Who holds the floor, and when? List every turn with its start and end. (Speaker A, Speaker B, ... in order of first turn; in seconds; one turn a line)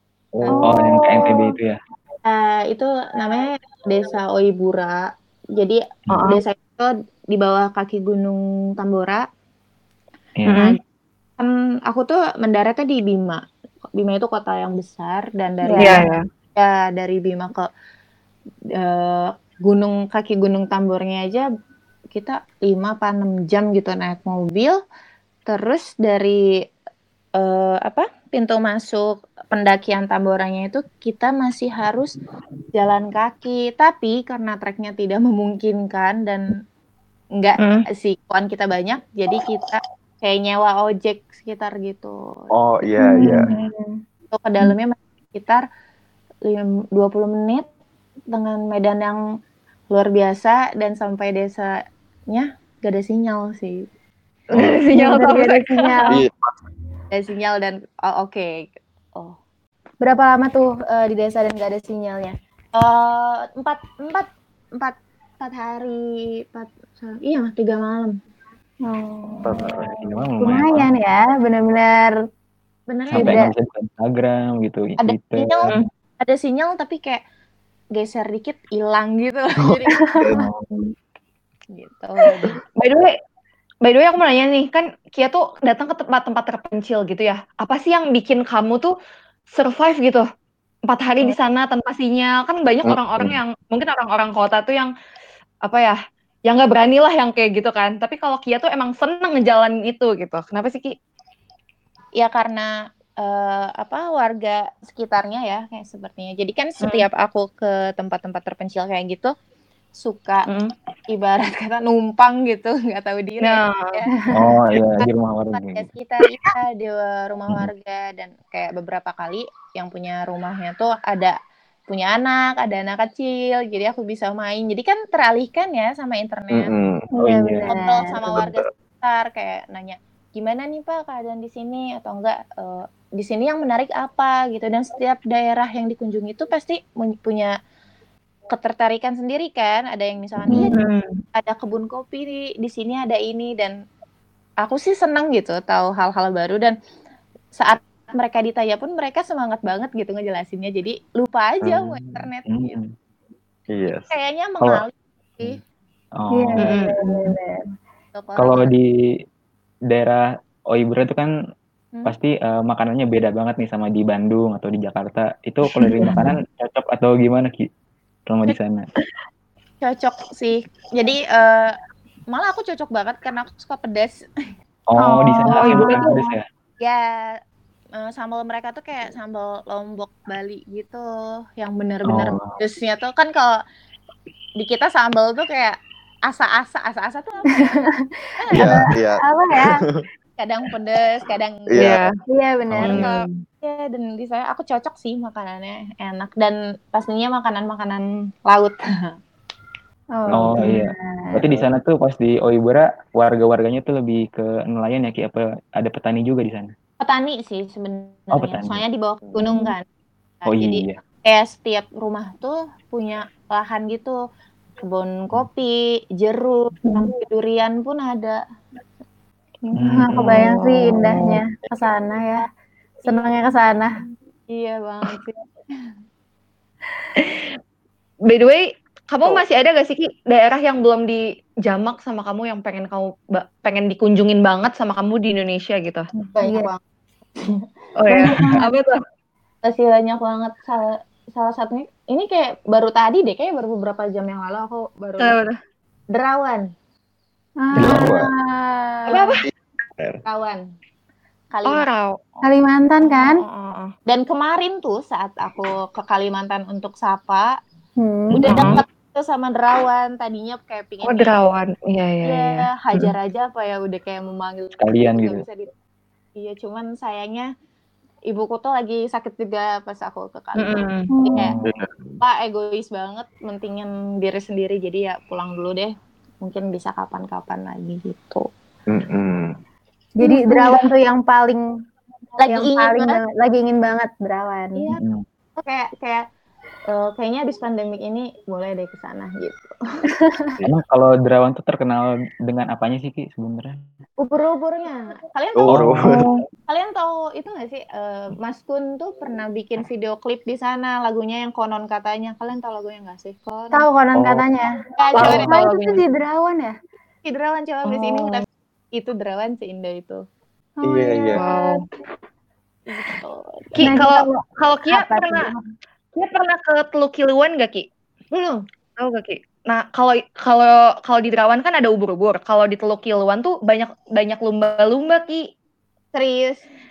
Speaker A: 0.4-0.7
Speaker B: 0.5-1.4
Speaker C: 0.6-1.8
Speaker A: 2.2-9.2
Speaker D: 6.1-6.4
Speaker C: 10.4-10.6
Speaker D: 10.5-10.8
Speaker A: 11.4-13.4
Speaker A: 13.9-17.7
Speaker B: 15.6-16.1
Speaker D: 15.8-16.2
Speaker A: 18.8-21.4
Speaker A: 22.1-24.8
Speaker A: 25.4-26.6
Speaker A: 27.4-32.1
Speaker A: 32.7-36.6
Speaker A: 37.3-42.5
Speaker D: 37.6-37.9
Speaker E: 42.5-43.5
Speaker B: 43.0-44.0
Speaker D: 43.2-43.5
Speaker A: 44.3-45.6
Speaker A: 46.4-47.6
Speaker A: 48.3-49.4
Speaker A: 49.9-53.9
Speaker D: 54.5-56.0
Speaker E: 54.5-54.8
Speaker B: 54.9-56.2
Speaker E: 56.1-56.5
Speaker A: 57.1-59.4
Speaker B: 60.0-62.4
Speaker A: 62.7-68.2
Speaker B: 68.8-69.8
Speaker E: 69.4-69.8
Speaker C: 69.6-70.9
Speaker B: 70.4-72.1
Speaker A: 72.9-73.4
Speaker C: 73.1-75.7
Speaker B: 73.1-73.5
Speaker A: 75.0-77.2
Speaker A: 77.9-80.1
Speaker E: 79.6-80.5
Speaker C: 80.3-80.9
Speaker A: 81.7-82.6
Speaker D: 82.8-83.1
Speaker D: 83.8-88.9
Speaker D: 89.5-90.2
Speaker D: 90.9-94.9
Speaker E: 92.8-93.3
Speaker D: 95.6-96.0
Speaker D: 96.5-100.9
Speaker A: 102.2-109.3
Speaker A: 110.0-110.5
Speaker A: 111.1-121.3
Speaker D: 113.4-113.9
Speaker C: 114.3-115.8
Speaker A: 121.9-126.7
Speaker E: 126.5-127.1
Speaker B: 127.1-128.1
Speaker C: 127.2-127.7
Speaker A: 127.6-137.5
Speaker E: 128.2-128.7
Speaker A: 138.5-140.8
Speaker D: 140.7-141.2
Speaker A: 141.3-143.8
Speaker A: 144.6-146.8
Speaker A: 147.5-152.8
Speaker E: 151.6-152.1
Speaker C: 152.5-152.9
Speaker E: 153.7-154.1
Speaker A: 154.1-155.6
Speaker C: 156.2-156.8
Speaker B: 156.3-157.6
Speaker D: 156.6-157.3
Speaker A: 158.1-158.7
Speaker C: 158.4-159.0
Speaker C: 159.9-161.3
Speaker C: 162.0-167.7
Speaker D: 165.8-166.2
Speaker C: 168.3-168.8
Speaker A: 169.8-171.7
Speaker A: 172.3-174.2
Speaker C: 174.9-176.4
Speaker B: 175.0-176.2
Speaker D: 175.5-176.1
Speaker A: 176.8-177.3
Speaker A: 177.9-181.1
Speaker A: 181.6-183.6
Speaker C: 182.1-182.6
Speaker A: 184.6-185.8
Speaker A: 186.3-187.8
Speaker B: 187.5-189.8
Speaker A: 188.4-188.8
Speaker E: 188.5-190.1
Speaker A: 190.4-191.9
Speaker E: 191.7-192.0
Speaker D: 191.8-192.2
Speaker B: 192.3-193.0
Speaker C: 192.7-193.0
Speaker D: 192.8-193.4
Speaker A: 192.9-199.2
Speaker B: 200.1-201.4
Speaker A: 200.2-200.6
Speaker C: 200.3-206.7
Speaker A: 207.0-209.8
Speaker C: 208.3-208.8
Speaker B: 209.4-209.7
Speaker A: 210.4-214.2
Speaker C: 210.5-211.0
Speaker A: 214.8-218.4
Speaker A: 219.6-221.1
Speaker C: 219.8-220.6
Speaker B: 219.8-222.4
Speaker D: 220.7-221.3
Speaker B: 223.1-223.9
Speaker A: 224.5-225.9
Speaker D: 227.2-227.6
Speaker D: 228.3-236.1
Speaker B: 236.2-236.7
Speaker A: 236.3-236.8
Speaker A: 237.3-237.7
Speaker D: 238.0-239.0
Speaker B: 238.1-238.7
Speaker A: 239.6-245.4
Speaker D: 245.2-245.6
Speaker A: 246.1-246.7
Speaker B: 247.6-249.2
Speaker E: 247.8-248.3
Speaker A: 249.1-249.4
Speaker D: 249.1-249.4
Speaker E: 249.5-250.2
Speaker A: 250.2-250.6
Speaker A: 251.5-252.4
Speaker D: 251.7-252.1
Speaker B: 252.4-253.4
Speaker A: 253.1-253.4
Speaker D: 253.5-253.9
Speaker A: 254.1-257.5
Speaker B: 258.0-258.4
Speaker A: 258.3-261.3
Speaker D: 258.4-258.7
Speaker C: 258.4-258.8
Speaker D: 261.0-263.1
Speaker A: 262.2-265.7
Speaker C: 264.8-265.4
Speaker A: 266.3-267.5
Speaker A: 268.3-271.6
Speaker D: 270.6-271.1
Speaker B: 271.1-271.5
Speaker E: 271.6-272.2
Speaker A: 272.2-278.5
Speaker E: 278.9-279.5
Speaker B: 280.2-281.6
Speaker A: 280.2-280.9
Speaker A: 282.4-283.2
Speaker B: 282.4-284.8
Speaker A: 284.8-285.0
Speaker C: 284.9-285.2
Speaker A: 285.6-286.2
Speaker A: 286.9-290.1
Speaker C: 290.6-293.8
Speaker A: 294.2-295.9
Speaker E: 295.5-296.2
Speaker C: 295.7-296.2
Speaker A: 296.7-303.9
Speaker B: 303.7-306.7
Speaker E: 304.1-304.4
Speaker A: 305.0-306.0
Speaker E: 305.2-305.6
Speaker A: 307.2-310.2
Speaker D: 307.9-308.4
Speaker B: 310.8-311.8
Speaker E: 310.8-311.4
Speaker D: 311.4-311.8
Speaker A: 312.9-314.0
Speaker D: 313.8-315.5
Speaker B: 313.8-315.6
Speaker D: 316.1-317.9
Speaker A: 318.3-318.6
Speaker D: 319.0-325.5
Speaker A: 326.1-326.6